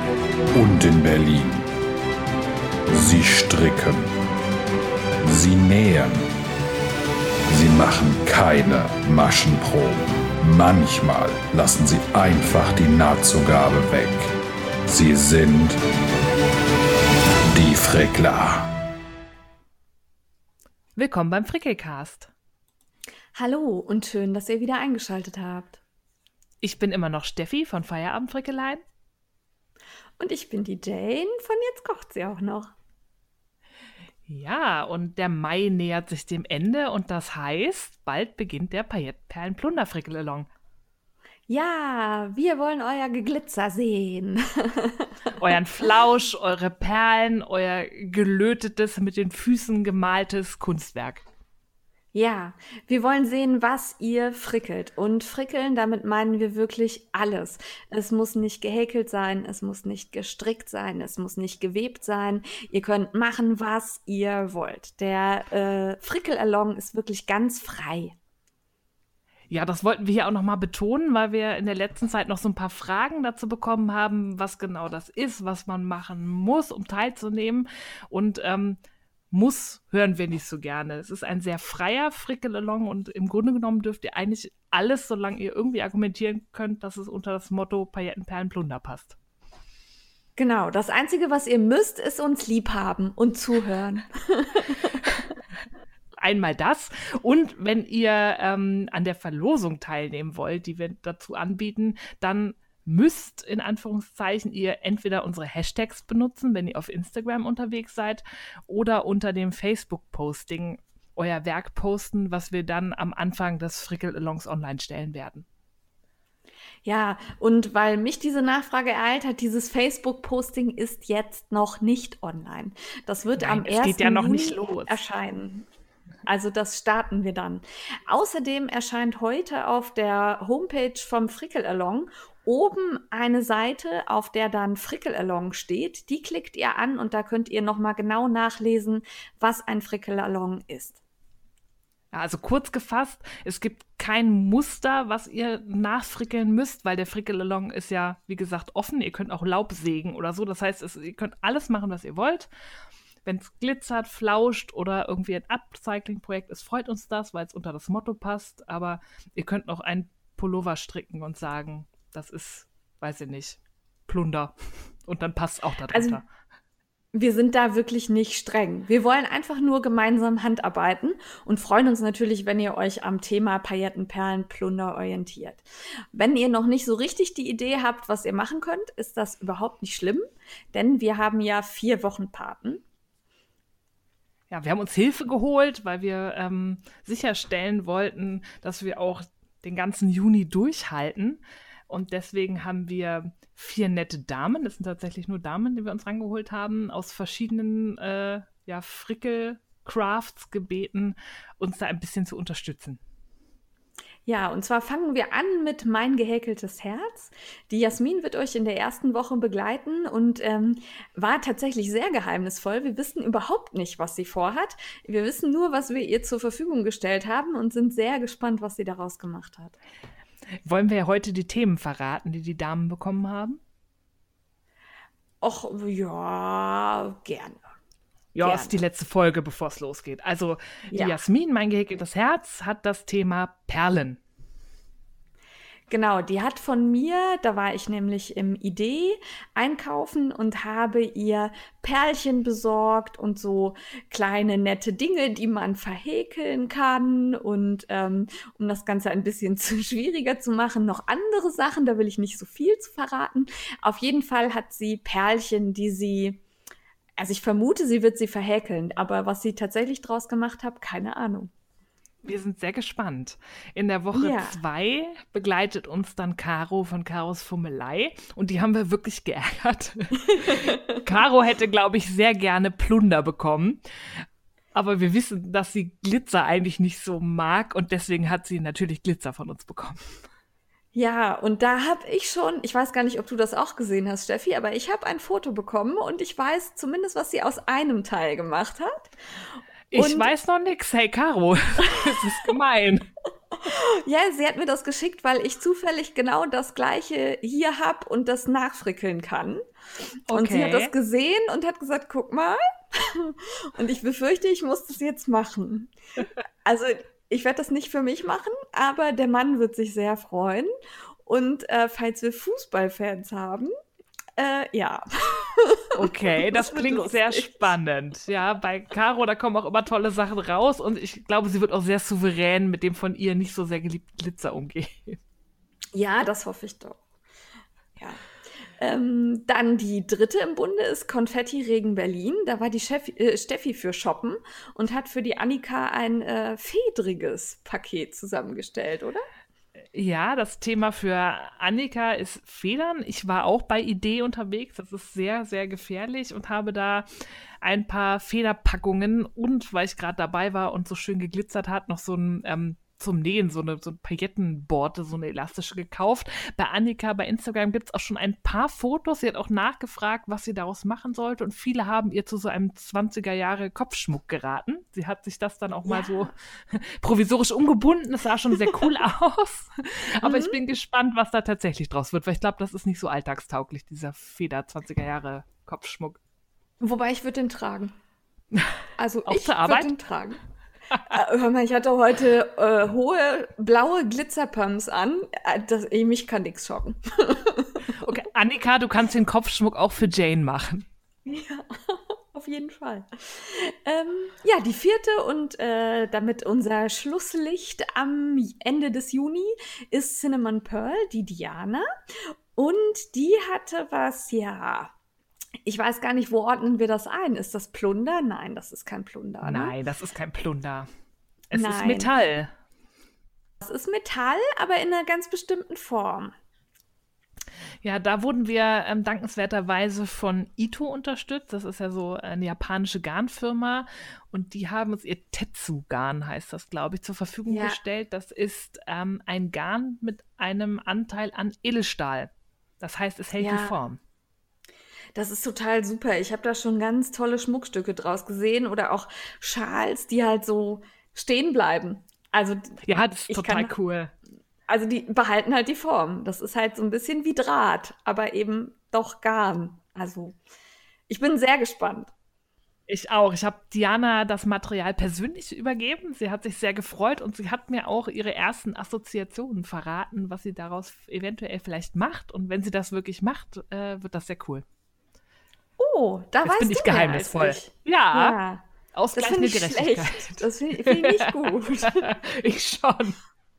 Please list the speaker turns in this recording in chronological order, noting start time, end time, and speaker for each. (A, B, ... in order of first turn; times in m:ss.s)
0:00.5-0:01.7 A
0:02.9-0:04.1 A
0:05.2-0:06.3 A
0:07.5-0:14.3 A
0:14.9-0:15.8 A
0:17.5-0:18.7 A
0:21.0-0:22.3 B
0:23.4-0:25.8 C
0:26.6-0:28.8 B
0:30.2-0:32.7 C
0:34.3-0:40.5 B
0:41.5-0:45.4 C
0:45.4-0:51.2 B
0:52.1-1:08.1 C
1:09.5-1:18.8 B
1:19.3-1:29.2 B
1:30.4-1:35.1 C
1:36.2-1:55.4 B
1:56.8-2:05.7 C
2:03.4-2:05.0 B
2:06.3-2:21.0 C
2:22.1-2:32.5 B
2:33.2-2:46.2 B
2:45.9-2:46.2 C
2:47.1-3:02.8 C
3:04.5-3:23.0 B
3:24.3-3:39.8 C
3:40.6-3:43.6 B
3:45.4-3:47.7 C
3:48.3-3:54.2 B
3:48.4-3:48.8 C
3:50.9-3:51.2 C
3:55.9-4:16.4 C
4:17.2-4:21.5 C
4:22.2-4:40.2 B
4:24.1-4:24.6 C
4:30.3-4:31.0 C
4:41.0-4:49.1 C
4:49.9-4:53.1 B
4:49.9-4:50.3 C
4:51.9-4:52.2 C
4:53.6-4:59.6 C
5:00.3-5:00.9 B
5:00.3-5:05.9 C
5:06.6-5:10.7 C
5:11.3-5:13.7 C
5:14.4-5:17.7 C
5:16.0-5:25.2 B
5:26.0-5:27.0 C
5:28.0-5:28.2 C
5:28.8-5:39.3 C
5:39.9-6:16.2 B
6:05.9-6:06.3 C
6:10.2-6:10.6 C
6:16.8-6:17.9 C
6:19.0-6:20.4 C
6:19.3-6:19.9 B
6:21.0-6:28.0 C
6:28.0-6:30.9 B
6:31.3-6:41.9 C
6:42.6-6:44.9 C
6:45.6-6:49.7 C
6:49.4-6:50.9 B
6:51.5-6:52.5 B
6:51.5-6:52.1 C
6:53.6-6:56.3 C
6:57.8-7:12.3 B
7:07.5-7:07.8 C
7:12.8-7:14.0 B
7:13.4-7:13.8 C
7:15.2-7:23.7 C
7:22.8-7:24.1 B
7:24.7-7:30.4 C
7:31.1-7:32.1 C
7:32.9-7:44.6 B
7:45.8-7:52.0 C
7:46.4-7:48.4 B
7:48.9-7:53.2 B